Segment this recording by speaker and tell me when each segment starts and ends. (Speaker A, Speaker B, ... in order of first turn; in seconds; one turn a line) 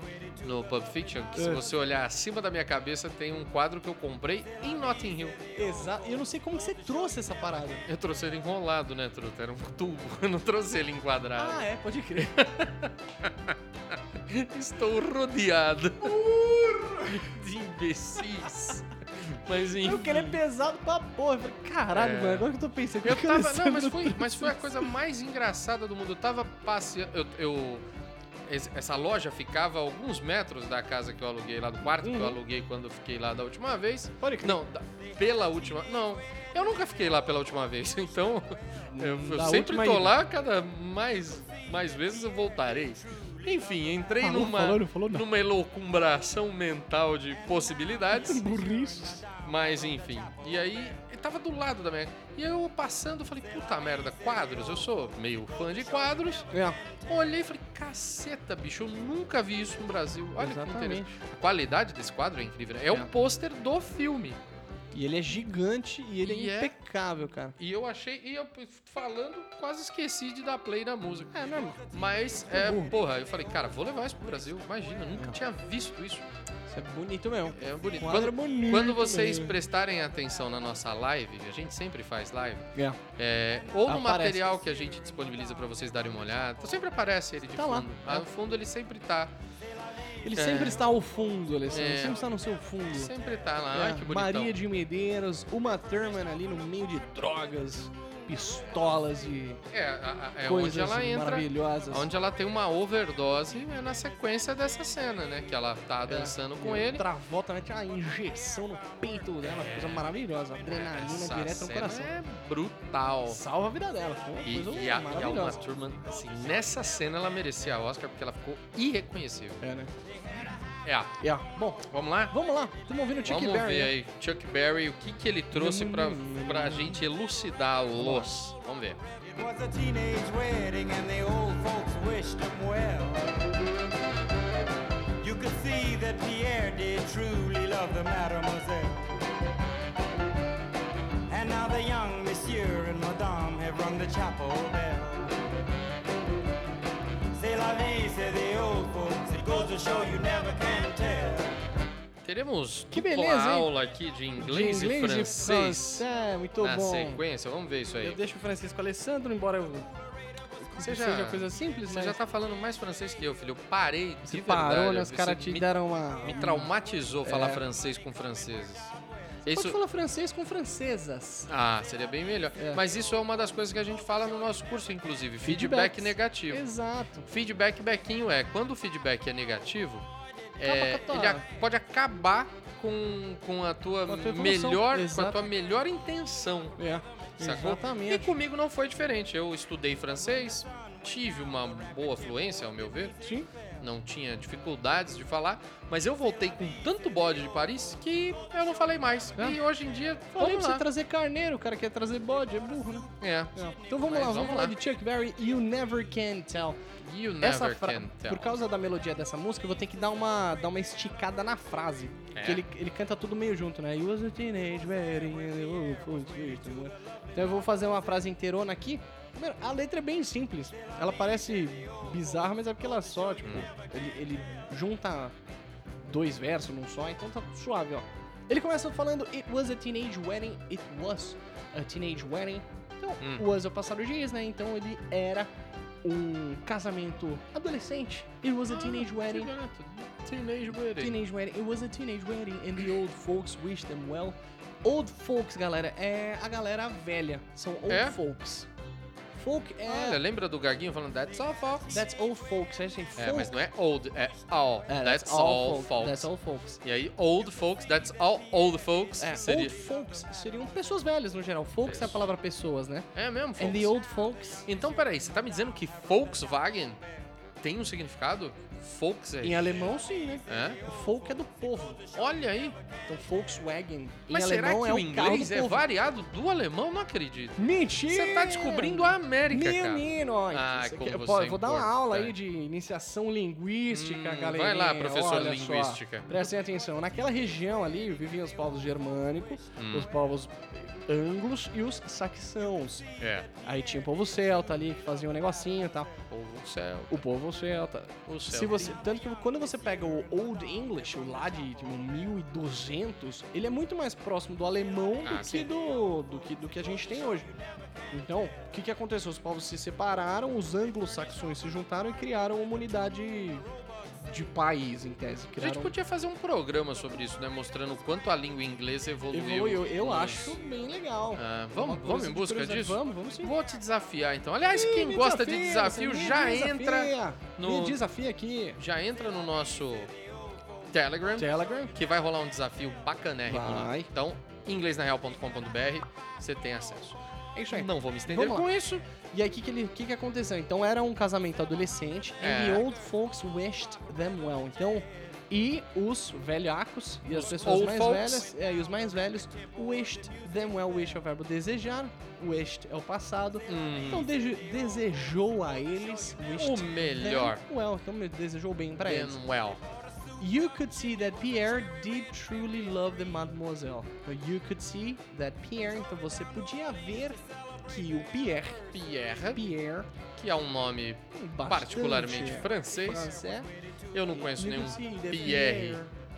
Speaker A: 0.4-5.4
Speaker B: 1.3-1.6
Speaker B: 5.5-7.8
Speaker A: 7.9-11.6
Speaker B: 11.4-12.6
Speaker A: 12.2-16.2
Speaker B: 16.0-17.3
Speaker A: 17.0-20.4
Speaker B: 19.8-24.9
Speaker A: 21.9-27.9
Speaker A: 28.5-48.5
Speaker B: 32.0-32.4
Speaker B: 34.2-34.6
Speaker B: 38.9-40.1
Speaker B: 44.2-45.3
Speaker B: 48.1-49.2
Speaker A: 49.4-56.5
Speaker B: 56.5-56.8
Speaker A: 57.1-64.4
Speaker B: 60.4-61.1
Speaker B: 64.9-67.6
Speaker A: 66.2-66.7
Speaker A: 67.6-71.4
Speaker B: 71.3-71.8
Speaker A: 71.9-76.2
Speaker B: 72.5-72.9
Speaker B: 76.7-79.6
Speaker A: 77.5-89.3
Speaker B: 82.8-83.0
Speaker B: 83.9-84.5
Speaker B: 87.5-88.2
Speaker B: 90.2-93.1
Speaker A: 90.3-90.8
Speaker A: 91.7-92.2
Speaker A: 92.9-94.6
Speaker B: 93.7-99.6
Speaker A: 99.7-107.0
Speaker B: 100.4-102.1
Speaker B: 106.1-112.1
Speaker A: 109.4-110.1
Speaker A: 110.6-113.4
Speaker B: 113.3-115.6
Speaker A: 114.5-119.6
Speaker B: 119.6-119.9
Speaker A: 120.8-121.1
Speaker B: 121.2-123.9
Speaker A: 121.8-122.3
Speaker A: 123.2-129.0
Speaker B: 125.5-127.1
Speaker B: 128.0-128.5
Speaker C: 129.3-133.6
Speaker C: 135.2-139.2
Speaker C: 141.3-145.4
Speaker C: 147.3-151.5
Speaker A: 152.2-156.1
Speaker B: 152.9-153.7
Speaker B: 154.4-157.2
Speaker A: 156.6-158.2
Speaker B: 158.0-159.9
Speaker B: 160.6-162.2
Speaker A: 160.8-165.7
Speaker B: 164.2-166.7
Speaker A: 166.2-168.9
Speaker B: 167.2-167.6
Speaker A: 169.5-169.8
Speaker B: 169.5-171.5
Speaker A: 171.5-176.7
Speaker B: 172.6-172.8
Speaker B: 175.4-177.2
Speaker A: 177.2-180.1
Speaker A: 180.6-186.8
Speaker B: 180.6-181.4
Speaker B: 184.1-185.5
Speaker B: 186.8-188.4
Speaker A: 187.4-193.2
Speaker B: 193.2-193.5
Speaker A: 193.8-200.9
Speaker B: 200.3-206.8
Speaker A: 203.2-204.8
Speaker A: 207.0-208.5
Speaker B: 207.4-225.3
Speaker A: 212.3-212.6
Speaker B: 226.0-235.5
Speaker A: 233.2-233.5
Speaker B: 236.0-239.5
Speaker A: 238.7-241.2
Speaker B: 240.9-248.7
Speaker A: 247.9-248.2
Speaker B: 249.3-250.2
Speaker A: 249.9-252.0
Speaker B: 251.9-253.5
Speaker A: 253.2-256.3
Speaker B: 254.9-256.8
Speaker A: 256.8-259.7
Speaker B: 259.2-264.6
Speaker A: 261.9-262.1
Speaker A: 263.1-263.9
Speaker A: 264.6-267.0
Speaker A: 267.6-269.9
Speaker B: 269.4-272.1
Speaker A: 270.5-270.8
Speaker A: 272.1-272.8
Speaker B: 273.1-275.8
Speaker A: 274.3-282.4
Speaker B: 277.6-293.1
Speaker A: 283.9-286.5
Speaker A: 289.8-290.1
Speaker A: 293.2-293.5
Speaker B: 293.6-296.1
Speaker A: 296.3-297.2
Speaker B: 297.1-307.5
Speaker A: 298.2-299.0
Speaker A: 305.2-305.7
Speaker B: 308.1-313.6
Speaker B: 314.2-315.9
Speaker A: 315.6-320.6
Speaker B: 319.3-323.6
Speaker A: 321.4-328.0
Speaker B: 324.7-328.8
Speaker A: 328.8-330.1
Speaker A: 330.9-337.2
Speaker B: 331.4-331.9
Speaker B: 333.4-334.1
Speaker B: 337.6-359.4
Speaker A: 337.7-339.0
Speaker A: 342.4-342.9
Speaker A: 347.3-348.4
Speaker A: 353.7-354.3
Speaker A: 356.6-357.6
Speaker A: 359.0-359.8
Speaker B: 360.4-368.8
Speaker A: 368.9-369.6
Speaker B: 369.5-370.1
Speaker A: 370.4-373.3
Speaker B: 371.3-373.7
Speaker A: 374.1-376.0
Speaker B: 374.3-376.1